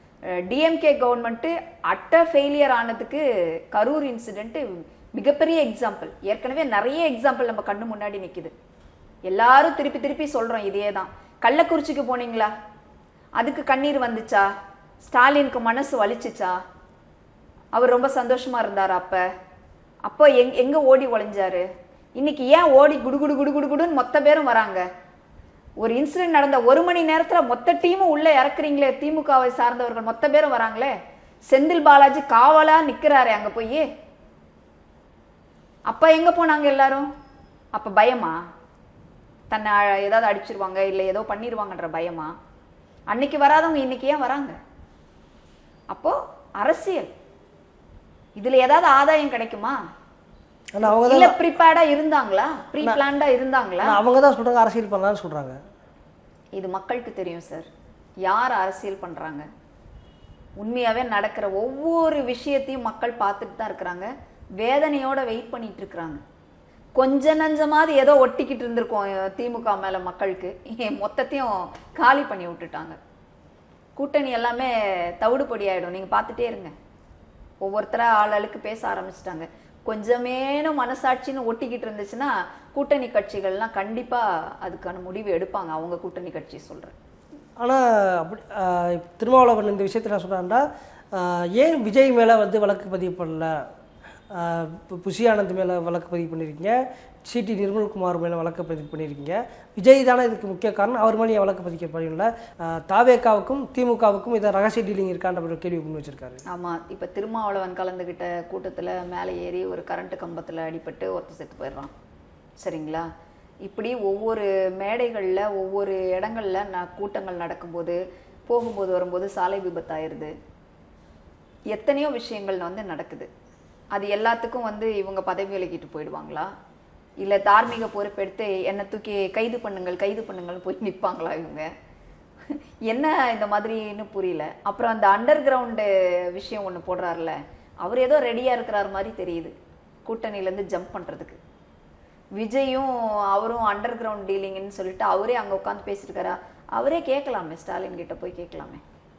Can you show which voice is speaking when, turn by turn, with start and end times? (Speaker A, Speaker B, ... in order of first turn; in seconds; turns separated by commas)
Speaker A: 0.4-8.5, Speaker A: 9.3-12.5, Speaker A: 13.4-14.5, Speaker A: 15.0-16.6, Speaker A: 17.8-19.2, Speaker A: 20.1-21.6, Speaker A: 22.2-24.9, Speaker A: 25.8-30.9, Speaker A: 31.5-33.9, Speaker A: 35.9-37.1, Speaker A: 37.8-38.4, Speaker A: 39.5-42.3, Speaker A: 43.1-44.6, Speaker A: 45.9-47.1, Speaker A: 48.4-49.8, Speaker B: 50.7-51.4, Speaker A: 50.8-54.0, Speaker B: 53.8-55.6, Speaker A: 56.6-57.7, Speaker A: 58.2-59.5, Speaker A: 60.6-66.2, Speaker A: 67.0-73.0, Speaker A: 74.0-76.7, Speaker A: 77.6-87.0, Speaker B: 87.6-93.6, Speaker B: 94.3-106.4, Speaker A: 106.5-111.9, Speaker A: 112.6-113.1, Speaker A: 113.6-120.3, Speaker A: 121.7-123.3, Speaker A: 123.9-126.5, Speaker A: 127.2-131.7, Speaker A: 132.5-139.5, Speaker A: 140.1-141.4, Speaker A: 142.4-148.8